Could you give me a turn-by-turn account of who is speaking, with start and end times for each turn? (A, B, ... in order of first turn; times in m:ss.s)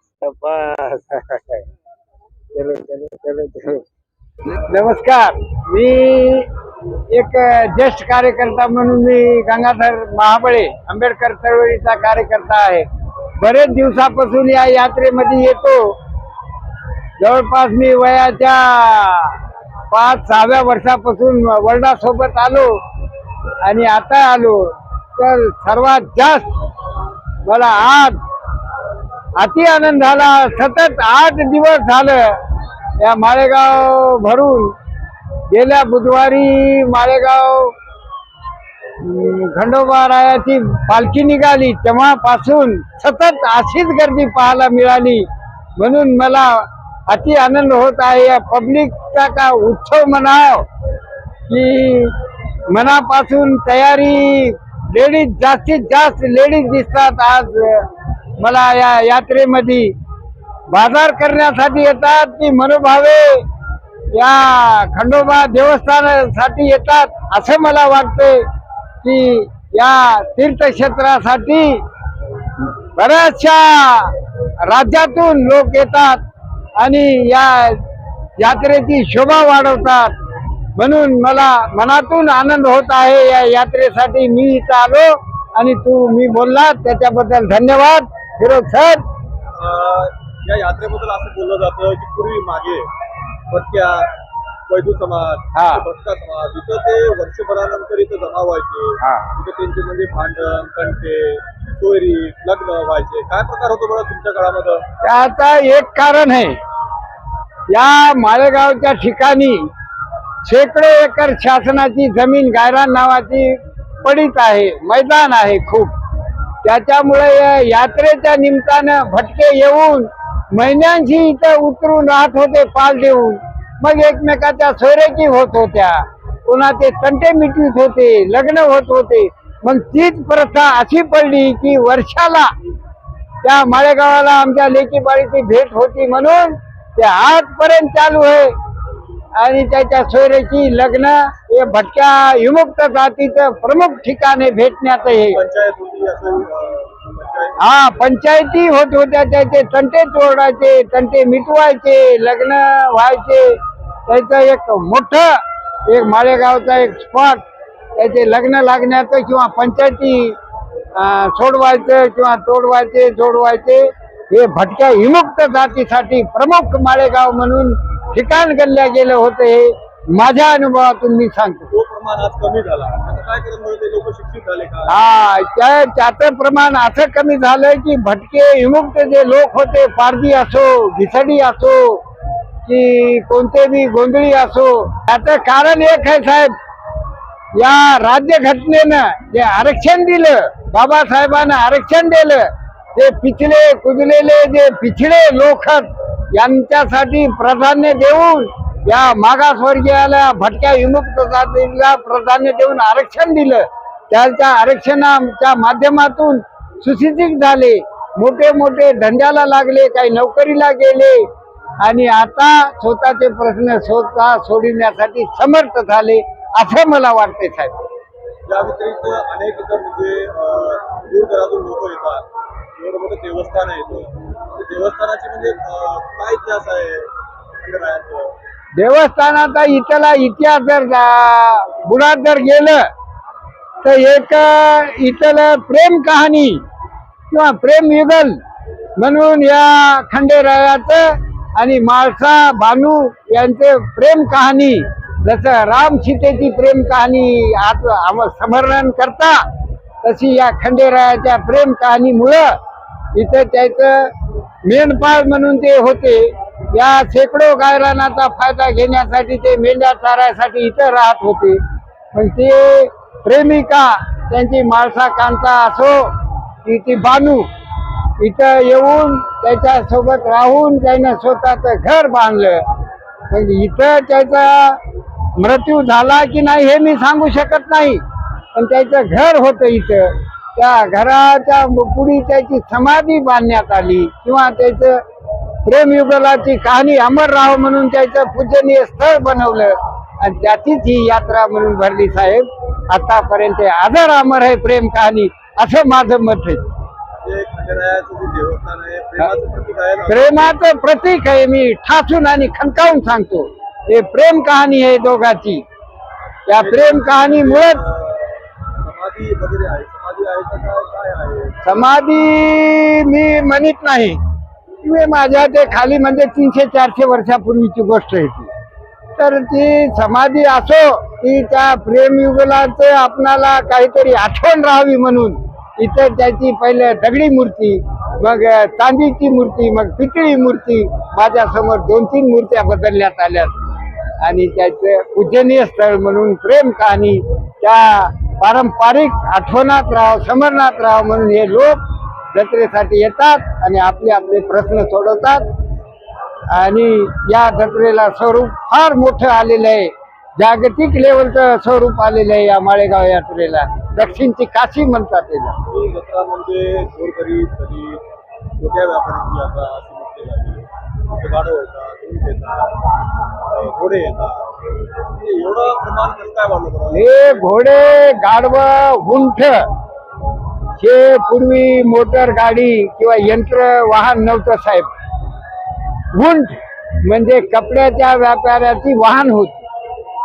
0:00.2-0:01.6 A
0:02.5-0:03.8 A
0:04.7-0:06.5 A
0:07.1-0:12.9 A
0:13.4-0:16.0 A
0:17.2-0:19.4 A
0:19.9-0:22.8 A
0:23.6-0:26.6 A
0:27.4-0:28.2 A
0:29.4-0:32.4 A
0:33.0-0:34.8 A
0:35.5-0:37.7 A
0:39.0-0:50.7 A
0:51.5-0:52.2 A
0:52.7-0:57.9 A
0:58.4-1:00.0 A
1:00.7-1:03.4 A
1:04.1-1:08.4 A
1:09.0-1:11.8 A
1:12.9-1:16.2 A
1:16.8-1:17.8 A
1:18.4-1:20.2 A
1:20.8-1:29.0 A
1:29.5-1:32.9 B
1:33.5-1:34.1 B
1:34.7-1:44.9 B
1:35.6-1:35.8 A
1:39.0-1:39.3 A
1:45.0-1:46.6 A
1:47.7-1:49.7 A
1:50.4-1:55.9 A
1:56.6-2:12.5 A
2:13.4-2:18.5 A
2:19.4-2:25.4 A
2:25.1-2:27.6 B
2:27.6-2:37.4 A
2:38.0-2:40.4 A
2:41.0-2:51.7 A
2:51.7-2:55.0 B
2:54.9-3:02.0 A
3:02.7-3:06.5 A
3:07.6-3:31.3 A
3:31.8-3:37.8 A
3:38.5-3:48.3 B
3:48.8-3:52.9 A
3:53.8-3:56.6 A
3:57.3-3:58.4 A
3:59.0-4:09.5 A
4:10.0-4:12.6 A
4:13.1-4:14.1 A
4:14.6-4:21.6 A
4:22.1-4:27.5 A
4:28.2-4:32.7 A
4:33.3-4:34.8 A
4:35.4-4:38.0 A
4:38.6-4:45.0 A
4:45.6-4:56.6 A
4:57.2-5:00.6 B
5:00.1-5:05.6 A
5:06.5-5:07.8 A
5:06.5-5:11.6 B
5:11.6-5:14.2 A
5:14.8-5:18.5 A
5:19.2-5:33.6 A
5:34.2-5:41.8 A
5:42.3-5:45.4 A
5:46.5-5:55.6 A
5:55.7-5:58.0 B
5:58.6-6:02.8 B
6:03.4-6:04.5 B
6:05.1-6:07.4 B
6:06.9-6:09.7 A
6:10.8-6:14.9 A
6:16.1-6:19.6 A